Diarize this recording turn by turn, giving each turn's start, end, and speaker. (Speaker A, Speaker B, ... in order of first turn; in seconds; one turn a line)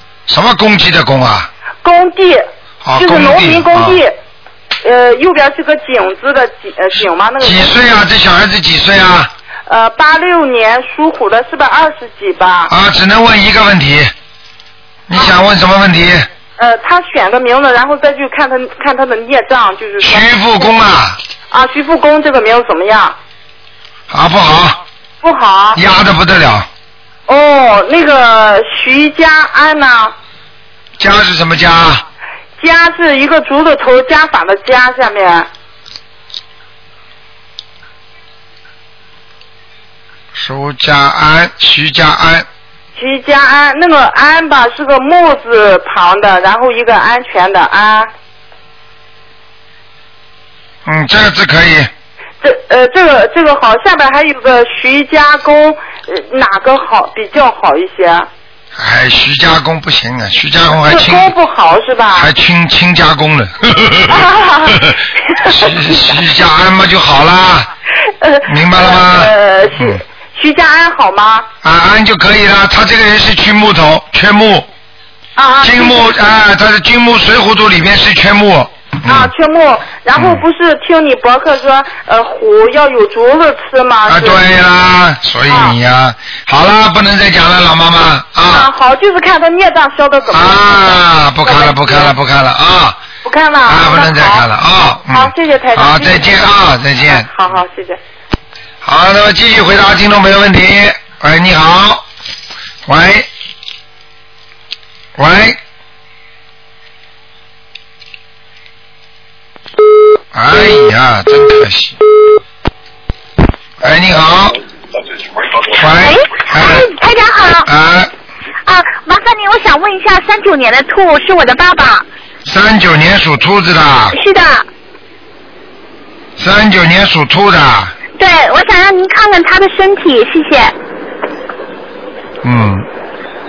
Speaker A: 0.3-1.5
Speaker B: 1.8-2.5
Speaker A: 2.8-4.0
Speaker B: 3.0-4.1
Speaker B: 4.8-7.7
Speaker A: 7.4-9.3
Speaker B: 9.7-12.7
Speaker A: 12.7-14.1
Speaker A: 15.1-16.3
Speaker B: 16.6-20.3
Speaker A: 20.0-21.2
Speaker B: 21.5-23.2
Speaker A: 24.1-24.8
Speaker B: 25.2-25.8
Speaker A: 25.8-26.7
Speaker B: 27.3-30.1
Speaker A: 31.0-32.0
Speaker B: 32.6-35.5
Speaker A: 40.3-42.5
Speaker B: 43.0-48.1
Speaker A: 50.9-51.9
Speaker B: 52.4-58.3
Speaker A: 58.8-61.3
Speaker B: 60.7-62.3
Speaker A: 62.1-64.3
Speaker B: 64.1-66.2
Speaker A: 64.8-67.7
Speaker B: 68.2-71.5
Speaker A: 68.5-70.0
Speaker A: 71.6-74.7
Speaker B: 75.4-76.2
Speaker A: 75.6-79.3
Speaker B: 79.1-84.4
Speaker A: 80.2-80.4
Speaker A: 84.1-88.7
Speaker B: 85.5-85.8
Speaker B: 88.5-92.1
Speaker A: 90.3-93.0
Speaker B: 93.2-94.5
Speaker A: 93.7-97.3
Speaker B: 95.1-96.5
Speaker B: 97.0-98.0
Speaker A: 98.8-102.0
Speaker A: 102.9-103.3
Speaker A: 105.2-105.6
Speaker A: 110.3-112.0
Speaker A: 113.8-114.6
Speaker A: 115.7-116.9
Speaker C: 115.9-117.7
Speaker A: 117.7-118.1
Speaker C: 118.7-122.1
Speaker A: 122.5-124.2
Speaker C: 124.1-124.7
Speaker A: 126.4-127.9
Speaker C: 128.2-130.8
Speaker A: 132.4-132.9